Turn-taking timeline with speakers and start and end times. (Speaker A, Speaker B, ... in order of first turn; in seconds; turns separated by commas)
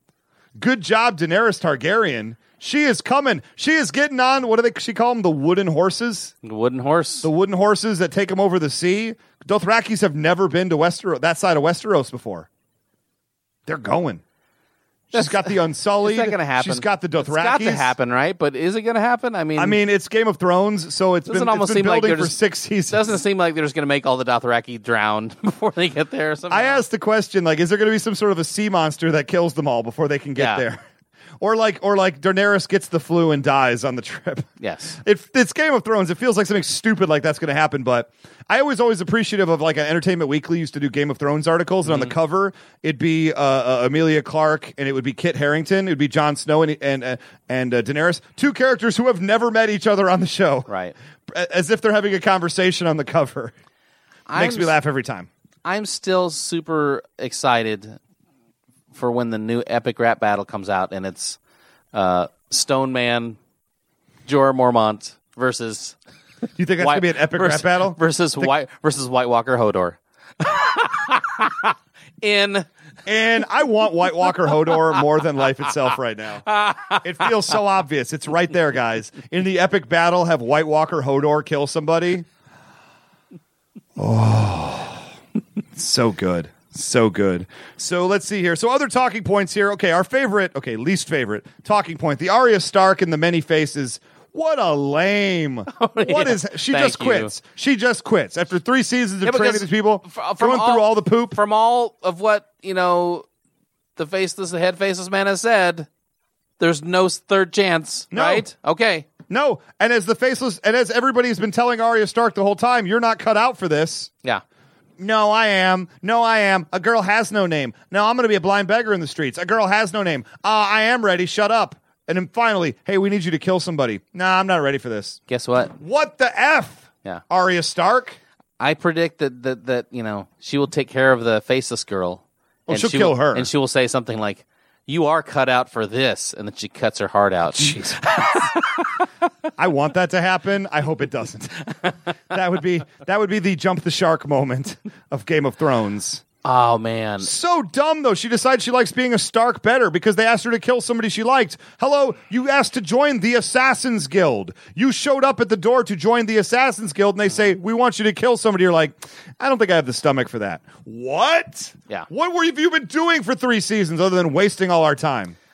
Speaker A: 0.6-6.3, Speaker B: 6.4-7.3, Speaker A: 7.2-12.5, Speaker A: 13.7-14.2, Speaker A: 15.1-17.9, Speaker B: 15.1-19.8, Speaker A: 19.6-23.1, Speaker B: 21.3-22.4, Speaker B: 22.9-26.8, Speaker A: 26.5-30.8, Speaker B: 30.4-30.6, Speaker A: 31.4-50.7, Speaker B: 34.6-35.0, Speaker B: 41.8-42.1, Speaker B: 50.7-50.9, Speaker A: 51.3-53.5, Speaker B: 54.3-54.8, Speaker A: 54.3-55.3, Speaker B: 55.6-58.0, Speaker B: 58.9-61.4, Speaker B: 61.9-63.4, Speaker B: 64.2-66.0, Speaker A: 66.5-68.5, Speaker B: 66.8-72.7, Speaker A: 73.0-82.3, Speaker B: 76.5-77.3, Speaker A: 84.0-85.0, Speaker A: 85.7-101.4, Speaker B: 95.7-97.3, Speaker B: 99.2-103.2, Speaker B: 104.0-105.9, Speaker B: 106.6-109.1, Speaker A: 108.1-108.5, Speaker A: 109.3-114.1, Speaker A: 115.0-125.2, Speaker B: 125.3-125.8, Speaker A: 125.8-128.2, Speaker B: 128.6-138.8, Speaker A: 132.7-133.5, Speaker A: 137.6-137.9, Speaker A: 139.6-141.6, Speaker A: 142.3-146.2, Speaker B: 146.4-147.3, Speaker A: 147.2-165.3